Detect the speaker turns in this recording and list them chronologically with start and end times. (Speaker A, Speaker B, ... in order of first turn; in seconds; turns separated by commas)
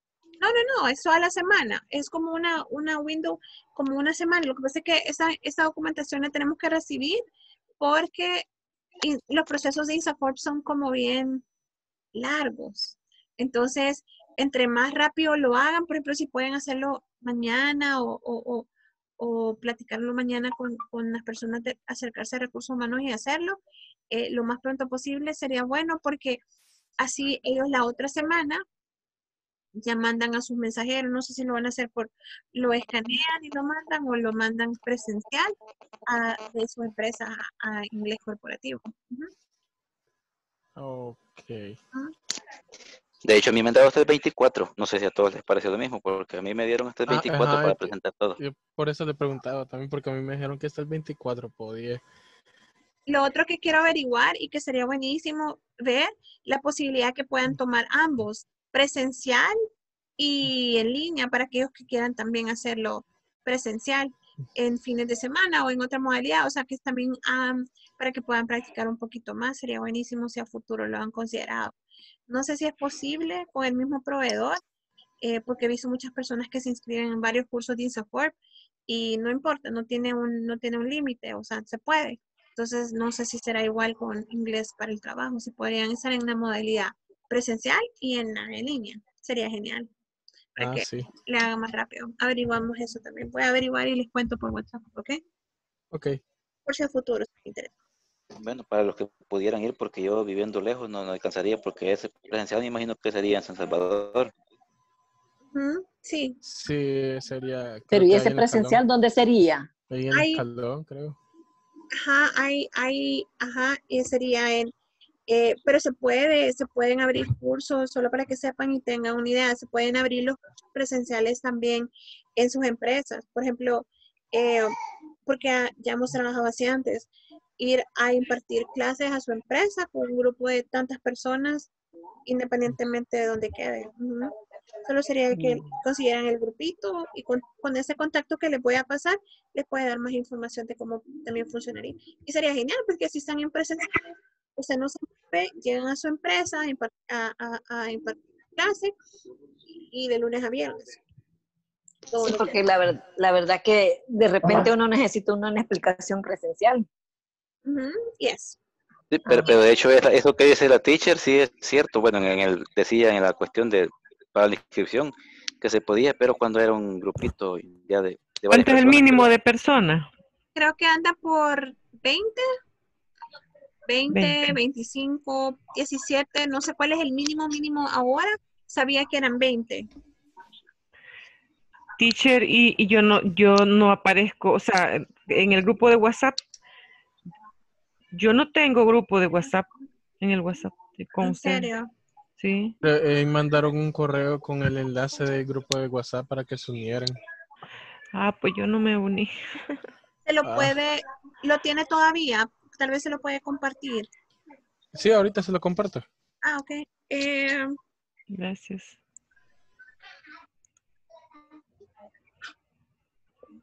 Speaker A: 0.4-7.2, Speaker A: 7.8-8.4, Speaker A: 9.0-11.4, Speaker A: 12.1-18.7, Speaker A: 19.2-23.6, Speaker A: 24.1-26.4, Speaker A: 27.0-28.6, Speaker A: 29.8-35.5, Speaker A: 36.1-39.3, Speaker B: 40.8-41.8, Speaker C: 43.2-48.4, Speaker B: 47.1-52.0, Speaker A: 53.1-59.5, Speaker A: 60.2-71.7, Speaker A: 72.3-74.6, Speaker A: 75.2-78.3, Speaker A: 78.9-89.9, Speaker A: 90.5-95.2, Speaker B: 90.6-91.1, Speaker B: 95.9-96.2, Speaker A: 96.7-97.7, Speaker C: 98.4-104.3, Speaker A: 105.5-106.4, Speaker B: 106.4-108.8, Speaker D: 107.9-109.7, Speaker B: 109.9-111.2, Speaker A: 110.1-110.4, Speaker A: 111.9-114.7, Speaker A: 115.3-124.7, Speaker A: 125.2-131.7, Speaker A: 132.2-134.3, Speaker A: 134.8-148.9, Speaker A: 149.9-151.0, Speaker A: 152.1-152.6, Speaker D: 152.1-156.8, Speaker A: 157.6-158.6, Speaker C: 159.1-169.3, Speaker D: 159.3-159.5, Speaker E: 168.5-170.1, Speaker A: 170.6-172.5, Speaker A: 173.9-179.9, Speaker E: 174.1-174.5, Speaker E: 182.0-186.4, Speaker E: 188.1-189.7, Speaker E: 190.2-191.7, Speaker A: 191.2-191.9, Speaker E: 192.4-192.8, Speaker B: 192.8-197.2, Speaker E: 198.1-199.8, Speaker A: 200.2-204.1, Speaker B: 200.4-200.7, Speaker B: 204.9-206.1, Speaker A: 206.4-207.8, Speaker E: 208.3-209.0